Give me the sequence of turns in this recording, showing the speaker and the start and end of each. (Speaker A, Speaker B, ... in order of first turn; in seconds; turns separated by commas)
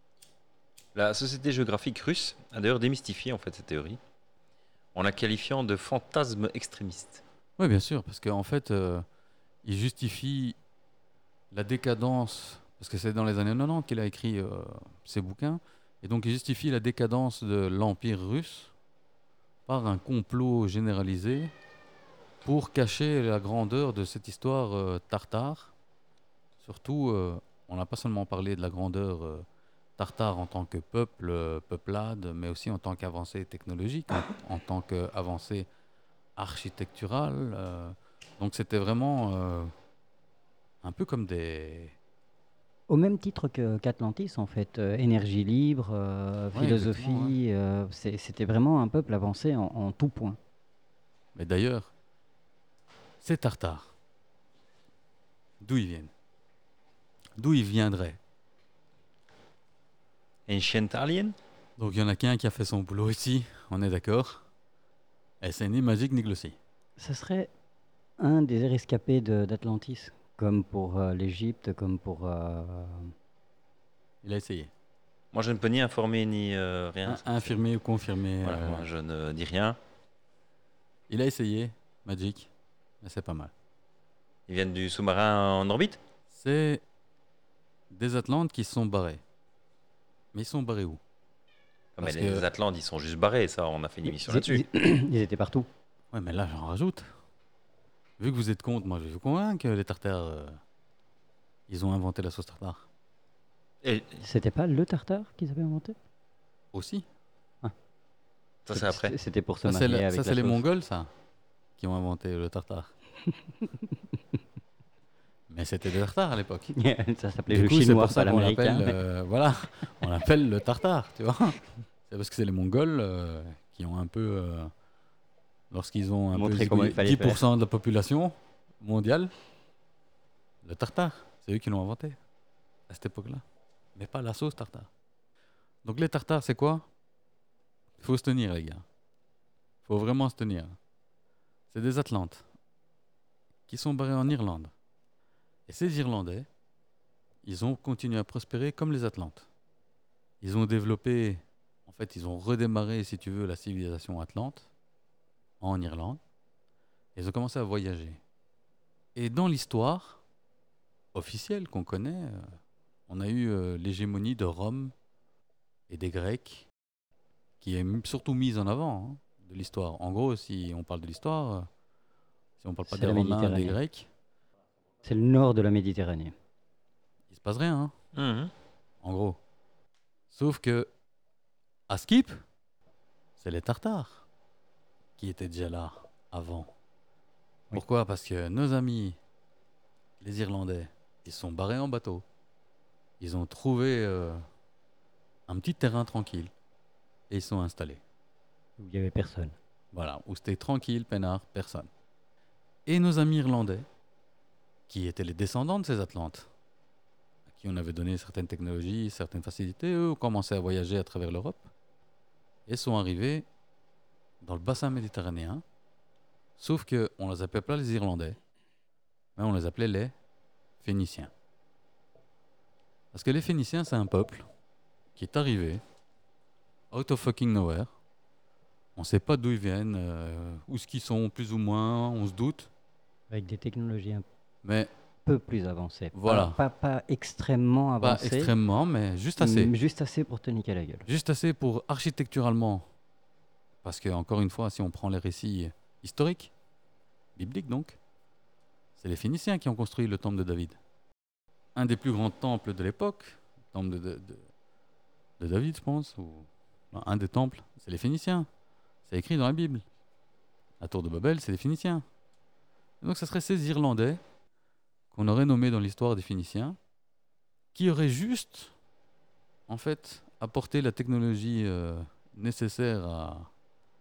Speaker A: 0.9-4.0, Speaker A: 4.9-7.2, Speaker B: 7.6-9.0, Speaker B: 9.6-10.6, Speaker B: 11.5-18.7, Speaker B: 19.7-21.5, Speaker B: 22.4-25.7, Speaker B: 26.6-29.4, Speaker B: 30.0-35.7, Speaker B: 36.4-39.7, Speaker B: 40.8-42.0, Speaker C: 42.9-50.4, Speaker B: 46.5-47.4, Speaker B: 51.3-51.9, Speaker B: 53.2-53.9, Speaker B: 55.6-56.1, Speaker B: 57.4-58.2, Speaker A: 60.5-61.4, Speaker B: 61.8-64.4, Speaker B: 65.4-66.6, Speaker C: 67.0-67.5, Speaker C: 68.2-73.1, Speaker B: 74.2-74.7, Speaker A: 75.3-77.5, Speaker B: 77.0-78.9, Speaker A: 78.4-79.8, Speaker B: 81.1-82.5, Speaker B: 83.0-83.5, Speaker A: 84.5-86.0, Speaker B: 86.3-86.8, Speaker B: 87.9-89.2, Speaker B: 90.3-91.0, Speaker A: 92.0-94.7, Speaker B: 92.0-92.4, Speaker C: 94.0-95.7, Speaker B: 96.1-97.1, Speaker B: 98.2-100.6, Speaker B: 101.7-102.8, Speaker A: 103.8-104.2, Speaker C: 104.2-106.0, Speaker B: 106.7-107.1, Speaker A: 108.7-109.1, Speaker C: 108.7-110.6, Speaker B: 109.6-111.1, Speaker B: 111.8-112.9, Speaker C: 113.3-113.9, Speaker B: 115.5-116.7, Speaker C: 116.7-119.0, Speaker B: 117.5-124.7, Speaker B: 125.7-129.3, Speaker C: 126.3-127.5, Speaker B: 130.6-132.2, Speaker B: 132.9-133.4, Speaker B: 133.9-134.9, Speaker B: 135.8-136.8, Speaker B: 138.0-138.8, Speaker B: 139.8-140.8, Speaker B: 141.7-142.4, Speaker B: 143.7-144.7, Speaker B: 145.7-146.5, Speaker B: 147.4-149.5, Speaker B: 150.4-154.7, Speaker B: 155.6-156.2, Speaker B: 157.2-158.2, Speaker B: 159.1-160.2, Speaker B: 161.1-162.5, Speaker B: 163.1-164.9, Speaker B: 165.9-166.7, Speaker B: 167.6-171.7, Speaker B: 172.6-174.1, Speaker C: 172.8-173.8, Speaker C: 175.0-176.3, Speaker B: 177.3-177.9, Speaker A: 178.1-178.5, Speaker B: 179.0-179.4, Speaker B: 180.3-180.9, Speaker B: 181.9-182.4, Speaker B: 183.4-184.2, Speaker B: 185.2-186.7, Speaker B: 187.7-189.2, Speaker B: 190.2-192.2, Speaker B: 193.2-194.4, Speaker B: 195.5-196.5, Speaker B: 197.3-198.0, Speaker C: 198.8-199.5, Speaker B: 199.9-201.9, Speaker B: 202.8-203.8, Speaker B: 204.9-206.5, Speaker B: 207.5-211.7, Speaker B: 212.7-213.5, Speaker B: 214.4-215.6, Speaker B: 216.6-218.4, Speaker B: 219.3-220.1, Speaker B: 220.8-221.3, Speaker B: 223.1-224.5, Speaker B: 225.1-225.8, Speaker B: 226.9-227.9, Speaker B: 228.9-232.7, Speaker C: 233.3-234.2, Speaker B: 234.6-234.9, Speaker C: 235.2-238.5, Speaker B: 236.1-236.6, Speaker B: 238.0-239.7, Speaker C: 239.4-241.1, Speaker B: 241.1-242.8, Speaker B: 243.8-246.5, Speaker B: 247.3-248.0, Speaker B: 249.0-250.8, Speaker B: 251.7-254.4, Speaker B: 255.4-258.5, Speaker B: 259.1-259.8, Speaker B: 260.8-262.0, Speaker B: 263.0-264.2, Speaker B: 265.1-266.8, Speaker B: 267.7-268.7, Speaker B: 269.7-273.5